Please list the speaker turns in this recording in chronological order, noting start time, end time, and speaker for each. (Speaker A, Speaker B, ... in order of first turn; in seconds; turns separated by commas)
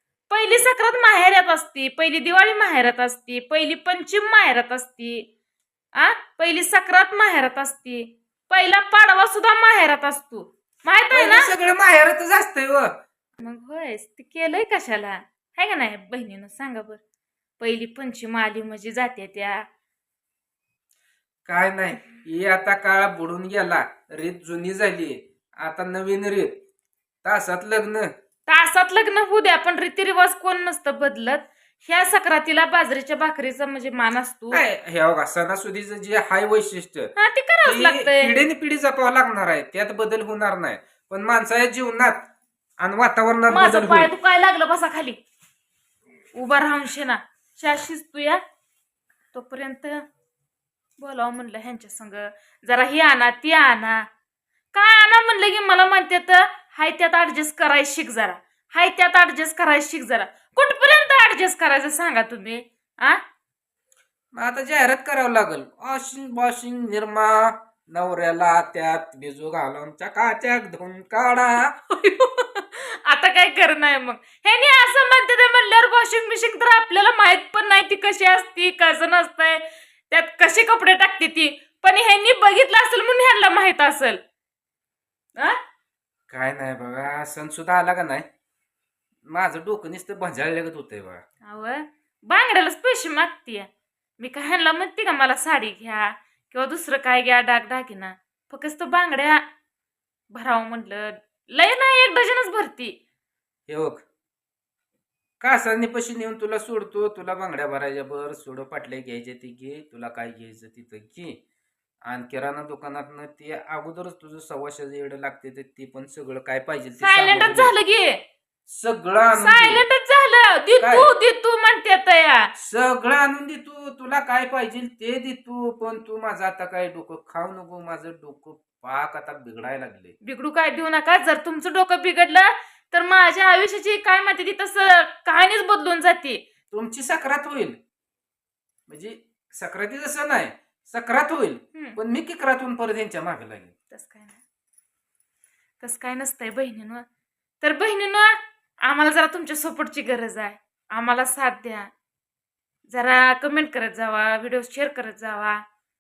Speaker A: 0.3-5.3, Speaker A: 5.9-11.5, Speaker B: 11.1-12.9, Speaker A: 13.4-17.0, Speaker A: 17.6-19.6, Speaker B: 21.4-26.5, Speaker B: 27.2-28.1, Speaker A: 28.5-34.6, Speaker B: 34.5-37.1, Speaker A: 37.1-38.4, Speaker B: 37.6-42.3, Speaker B: 42.8-44.1, Speaker A: 43.5-45.2, Speaker A: 46.3-48.4, Speaker A: 49.3-50.0, Speaker A: 51.0-54.0, Speaker A: 54.7-63.2, Speaker B: 64.3-71.7, Speaker A: 71.8-84.2, Speaker B: 86.3-88.2, Speaker B: 89.3-91.2, Speaker A: 91.4-99.4, Speaker A: 100.3-102.9, Speaker B: 103.7-104.0, Speaker B: 105.4-111.4, Speaker B: 112.0-117.7, Speaker A: 117.0-118.2, Speaker B: 118.7-119.8, Speaker A: 119.3-122.5, Speaker B: 120.8-121.1, Speaker B: 122.6-130.1, Speaker A: 130.2-136.4, Speaker B: 136.7-137.8, Speaker B: 138.9-143.7, Speaker A: 143.9-144.4, Speaker A: 145.8-147.0, Speaker A: 147.6-151.9, Speaker A: 152.9-155.6